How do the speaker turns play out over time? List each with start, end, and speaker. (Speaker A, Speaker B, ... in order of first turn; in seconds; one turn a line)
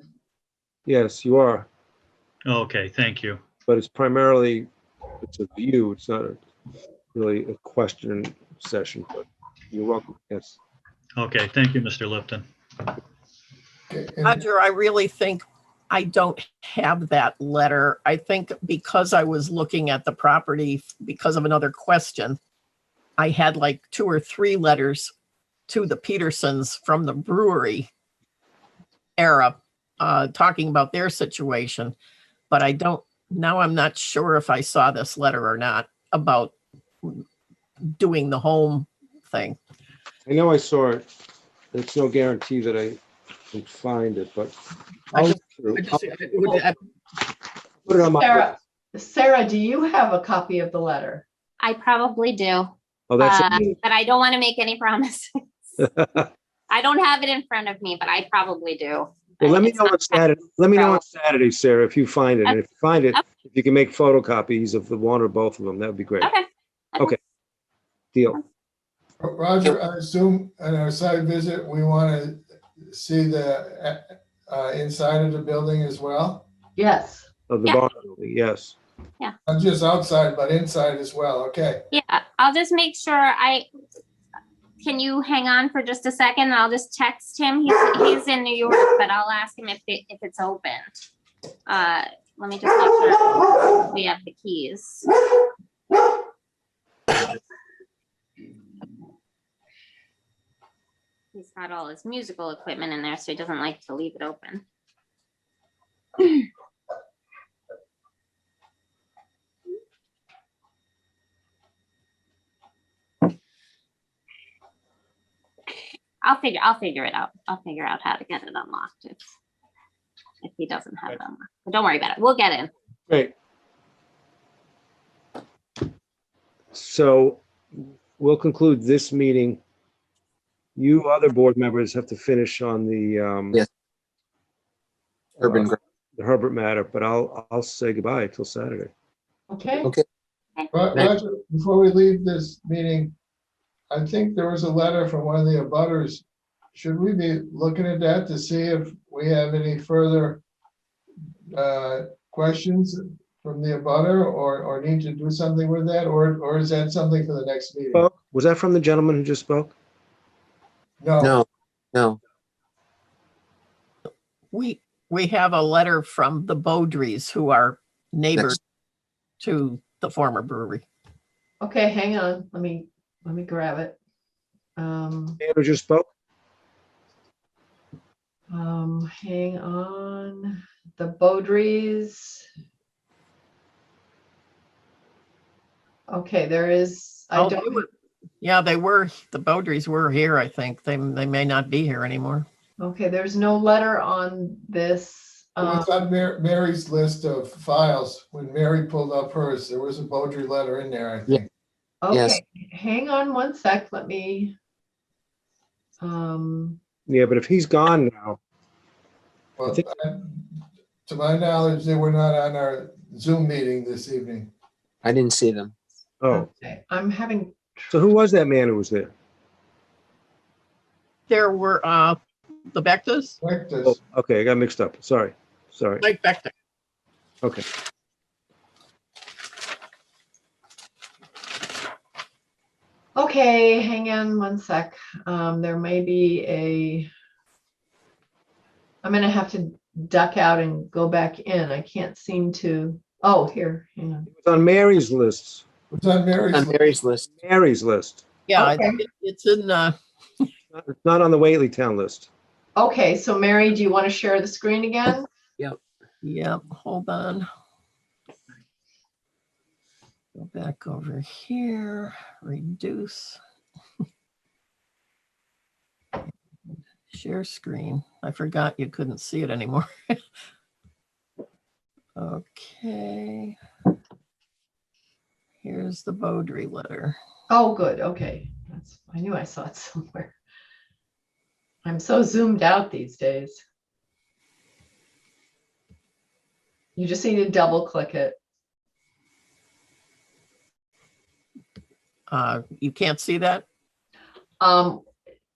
Speaker A: 0.9-1.7
Speaker B: 2.5-3.4
Speaker A: 3.7-4.7
Speaker A: 5.2-6.4
Speaker A: 7.1-10.6
Speaker B: 11.2-12.4
Speaker C: 13.9-14.4
Speaker D: 14.2-22.4
Speaker D: 23.2-25.1
Speaker D: 25.7-27.9
Speaker D: 29.2-31.9
Speaker D: 32.5-37.2
Speaker D: 37.9-39.6
Speaker A: 40.2-41.1
Speaker A: 41.7-43.0
Speaker A: 43.5-44.6
Speaker A: 45.1-46.1
Speaker D: 45.1-46.8
Speaker A: 47.8-48.5
Speaker E: 47.9-51.2
Speaker F: 51.6-55.3
Speaker A: 53.1-53.7
Speaker A: 55.8-56.2
Speaker F: 56.7-61.0
Speaker A: 59.4-66.3
Speaker A: 68.1-68.4
Speaker C: 69.2-76.5
Speaker E: 76.8-77.3
Speaker A: 77.5-78.8
Speaker C: 79.5-81.8
Speaker F: 81.9-83.7
Speaker F: 84.8-91.0
Speaker F: 91.7-95.1
Speaker F: 101.3-104.6
Speaker F: 116.2-119.2
Speaker F: 120.4-122.7
Speaker A: 126.7-129.6
Speaker A: 130.8-133.6
Speaker A: 135.4-138.9
Speaker G: 135.4-135.8
Speaker E: 139.5-139.9
Speaker C: 140.7-143.1
Speaker C: 143.9-150.4
Speaker C: 151.5-158.0
Speaker A: 157.9-159.7
Speaker C: 161.0-161.4
Speaker G: 161.2-162.2
Speaker D: 164.5-168.6
Speaker D: 169.4-170.8
Speaker E: 171.6-173.9
Speaker E: 174.8-175.4
Speaker A: 175.4-176.1
Speaker E: 178.5-182.4
Speaker E: 186.1-187.8
Speaker D: 187.3-187.9
Speaker D: 188.4-192.4
Speaker E: 192.8-195.9
Speaker C: 195.6-201.4
Speaker E: 202.0-204.6
Speaker G: 202.1-202.4
Speaker E: 206.0-206.8
Speaker A: 207.1-208.4
Speaker C: 209.6-210.5
Speaker A: 209.7-209.9
Speaker C: 211.1-214.5
Speaker G: 215.0-215.7
Speaker A: 216.2-216.5
Speaker E: 216.3-218.0
Speaker A: 217.9-219.1
Speaker D: 221.3-223.4
Speaker C: 223.4-223.9
Speaker A: 223.8-226.1
Speaker D: 226.0-226.5
Speaker E: 233.1-237.1
Speaker E: 239.0-244.2
Speaker A: 244.3-245.6
Speaker C: 245.9-247.0
Speaker G: 246.5-247.3
Speaker A: 247.3-248.2
Speaker D: 248.5-249.9
Speaker E: 248.6-248.9
Speaker A: 250.7-252.3
Speaker E: 252.8-255.3
Speaker D: 256.2-257.5
Speaker D: 260.3-263.4
Speaker D: 267.1-270.2
Speaker D: 272.2-273.6
Speaker D: 275.6-277.1
Speaker E: 277.5-280.3
Speaker E: 281.8-283.6
Speaker E: 286.9-288.4
Speaker D: 292.3-293.6
Speaker E: 294.6-295.0